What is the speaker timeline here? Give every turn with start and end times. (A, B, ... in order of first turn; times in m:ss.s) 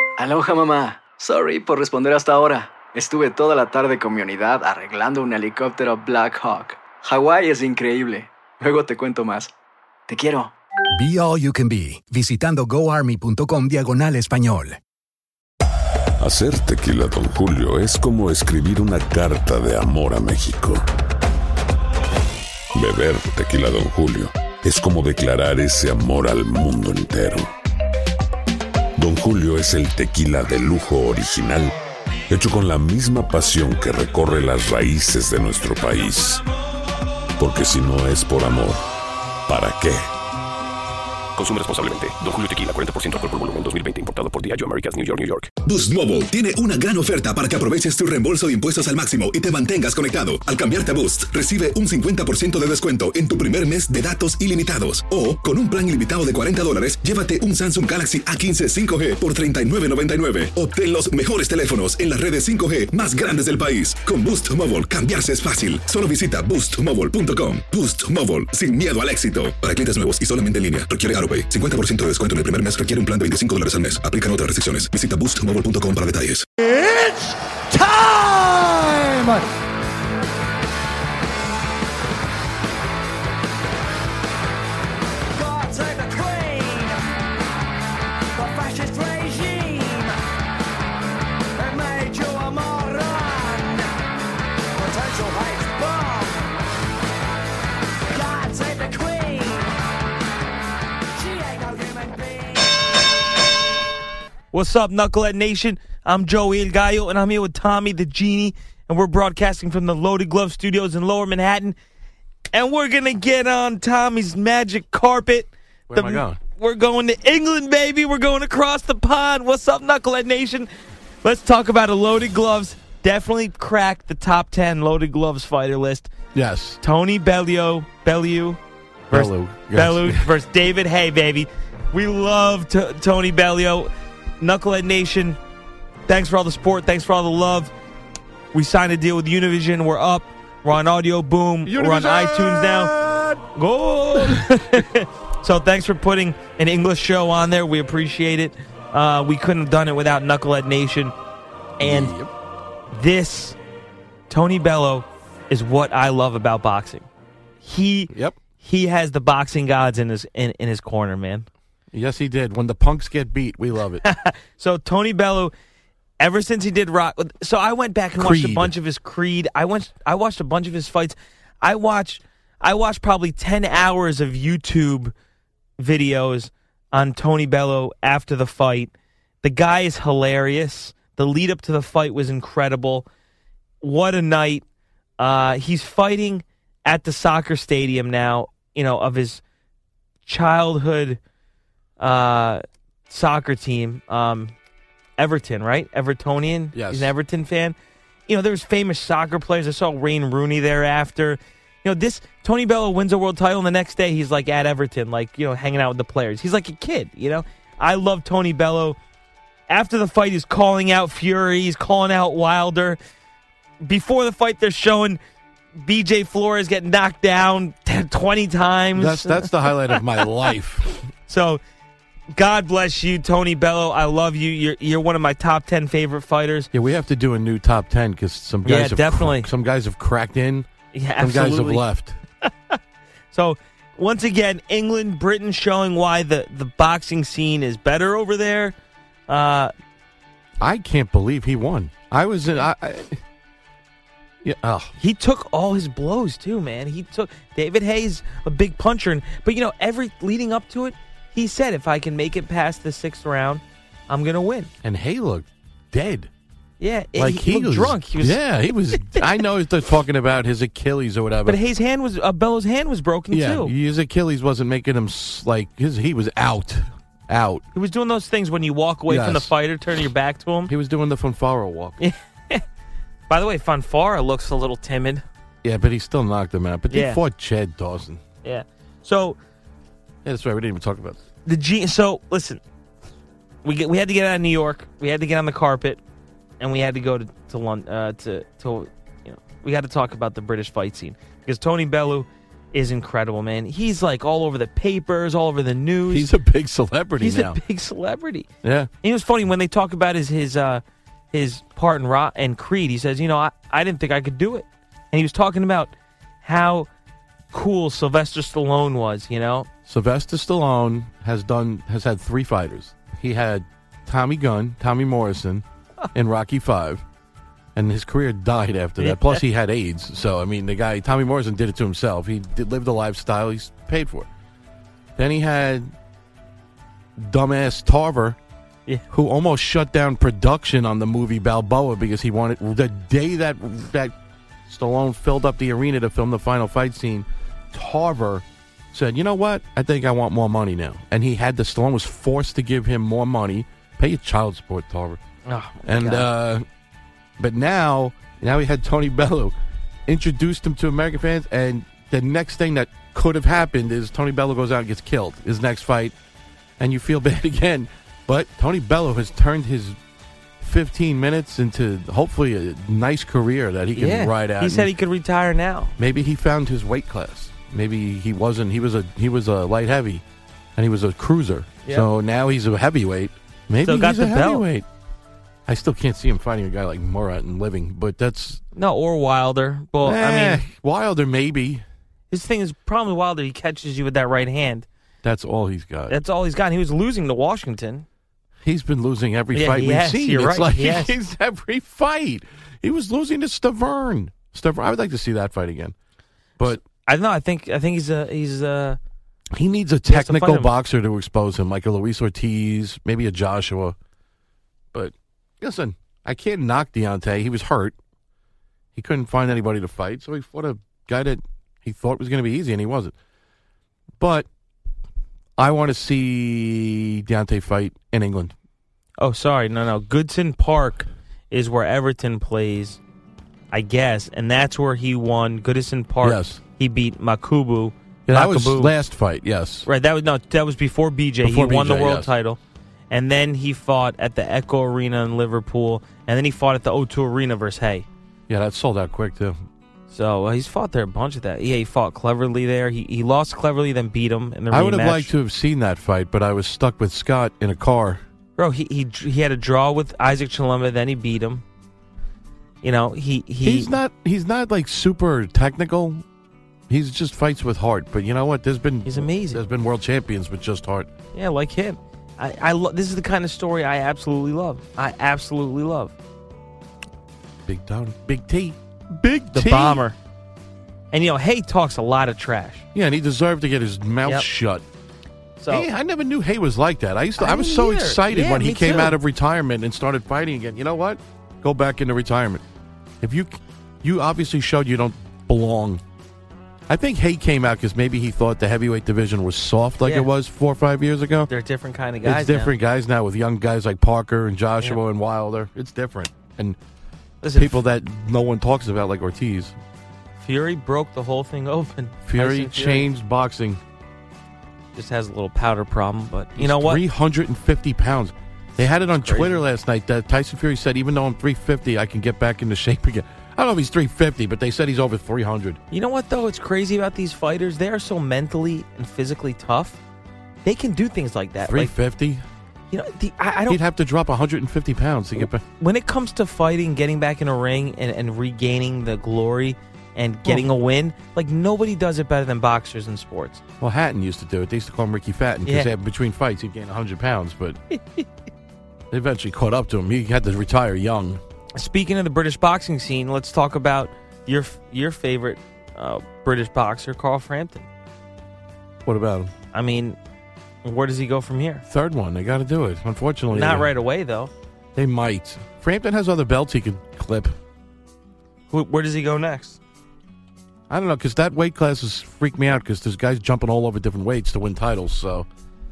0:00.2-0:09.5 A
0:10.1-0:10.5 A
0:10.9-0:14.8 B
0:16.2-0:20.8 C
0:22.7-0:27.5 C
0:29.0-0:31.8 C
0:32.3-0:36.4 C
0:37.4-0:38.8 C
0:39.5-0:40.1 C
0:41.4-0:45.5 D
0:45.6-1:16.5 E
1:16.7-1:18.5 F
1:25.3-1:27.0 F
1:28.3-1:30.2 F
1:31.6-1:34.0 F
1:34.7-1:36.5 F
1:38.1-1:39.8 F
1:41.1-1:42.8 F
1:44.5-1:51.8 G
1:52.5-2:00.7 G
1:55.9-1:56.4 H
2:01.2-2:06.1 G
2:06.3-2:06.8 H
2:06.8-2:08.6 G
2:09.1-2:15.4 G
2:09.1-2:10.2 H
2:16.1-2:17.7 G
2:18.5-2:22.9 G
2:21.6-2:23.4 H
2:23.5-2:31.1 G
2:24.1-2:24.5 H
2:31.8-2:32.1 G
2:31.8-2:32.3 H
2:32.9-2:33.6 G
2:34.3-2:37.0 G
2:37.6-2:41.5 G
2:38.1-2:38.4 H
2:41.9-2:44.0 H
2:44.0-2:45.5 G
2:46.2-2:55.1 G
2:48.2-2:48.7 H
2:55.8-2:58.9 G
2:59.4-3:03.1 G
3:03.8-3:04.6 G
3:05.2-3:09.4 G
3:10.2-3:11.2 G
3:12.0-3:14.5 G
3:15.2-3:17.8 G
3:16.7-3:17.1 H
3:18.3-3:29.0 G
3:29.7-3:33.0 G
3:33.8-3:35.2 G
3:35.8-3:40.2 G
3:38.9-3:41.0 H
3:41.3-3:41.6 G
3:42.3-3:46.7 G
3:46.7-3:50.7 H
3:48.6-3:49.5 G
3:50.9-3:51.8 G
3:51.2-3:52.2 H
3:52.4-3:52.8 G
3:53.3-3:58.7 G
3:59.3-3:59.7 G
4:00.6-4:03.2 H
4:04.4-4:04.9 H
4:05.0-4:14.7 G
4:14.8-4:16.3 H
4:16.8-4:18.4 G
4:17.2-4:21.6 H
4:18.9-4:19.3 G
4:21.4-4:23.7 G
4:23.3-4:27.6 H
4:27.7-4:30.7 G
4:29.1-4:29.5 H
4:30.7-4:32.0 H
4:32.0-4:32.6 G
4:33.3-4:35.2 G
4:35.6-4:38.2 H
4:36.9-4:37.2 G
4:38.4-4:39.4 G
4:40.2-4:41.2 H
4:41.4-4:42.6 G
4:43.6-4:46.0 G
4:46.6-4:56.3 G
4:56.1-4:57.6 H
4:57.2-4:58.5 G
4:58.6-4:58.9 H
4:59.0-5:06.9 G
5:07.5-5:09.7 G
5:09.8-5:17.0 H
5:17.7-5:24.3 H
5:19.0-5:19.4 G
5:25.2-5:25.9 H
5:27.2-5:28.4 H
5:29.1-5:34.1 H
5:34.7-5:45.2 H
5:45.4-5:46.3 G
5:45.8-5:46.6 H
5:47.4-5:49.6 H
5:50.1-5:56.1 H
5:56.8-6:00.0 H
6:00.6-6:04.9 H
6:03.9-6:05.9 G
6:06.0-6:10.2 H
6:10.8-6:14.8 H
6:13.8-6:14.6 G
6:15.7-6:18.6 H
6:18.7-6:20.6 G
6:20.0-6:21.8 H
6:22.3-6:24.9 G
6:25.2-6:26.2 H
6:26.1-6:28.0 G
6:28.6-6:35.9 H
6:29.5-6:31.1 G
6:36.6-6:39.0 G
6:39.5-6:44.0 H
6:40.1-6:40.7 G
6:44.9-6:48.0 H
6:48.9-6:53.1 H
6:54.2-6:54.5 H
6:55.6-6:58.5 H
6:59.2-7:03.0 G
7:03.7-7:08.9 G
7:06.2-7:06.6 H
7:08.3-7:09.9 H
7:09.8-7:12.6 G
7:11.4-7:12.3 H
7:13.1-7:18.0 G
7:18.5-7:19.6 H
7:20.1-7:25.3 G
7:24.7-7:28.2 H
7:28.6-7:31.6 G
7:32.8-7:33.9 G
7:33.6-7:36.2 H
7:36.9-7:41.1 H
7:39.0-7:39.6 G
7:41.3-7:46.1 G
7:47.6-7:50.0 H
7:49.5-7:50.2 G
7:51.1-7:52.8 G
7:52.9-7:54.8 H
7:55.6-7:55.9 G
7:55.7-8:02.6 H
7:57.4-7:59.2 G
8:03.2-8:06.0 H
8:06.9-8:11.5 H
8:10.0-8:10.3 G
8:11.5-8:12.7 G
8:12.2-8:16.8 H
8:17.4-8:17.8 G
8:17.5-8:19.7 H
8:20.4-8:23.1 G
8:22.2-8:23.8 H
8:24.9-8:27.0 G
8:26.6-8:35.8 H
8:28.9-8:29.6 G
8:35.9-8:40.0 G
8:40.6-8:41.9 G
8:41.7-8:42.4 H
8:42.9-8:43.8 G
8:43.7-8:45.6 H
8:45.4-8:53.6 G
8:53.8-8:57.8 H
8:55.6-8:55.9 G
8:57.9-8:58.2 G
8:59.1-9:01.4 H
9:01.8-9:07.8 G
9:09.0-9:09.5 H
9:09.7-9:10.2 G
9:10.8-9:11.8 G
9:11.9-9:13.9 H
9:13.5-9:14.5 G
9:14.9-9:17.6 H
9:18.7-9:19.8 G
9:20.9-9:25.5 H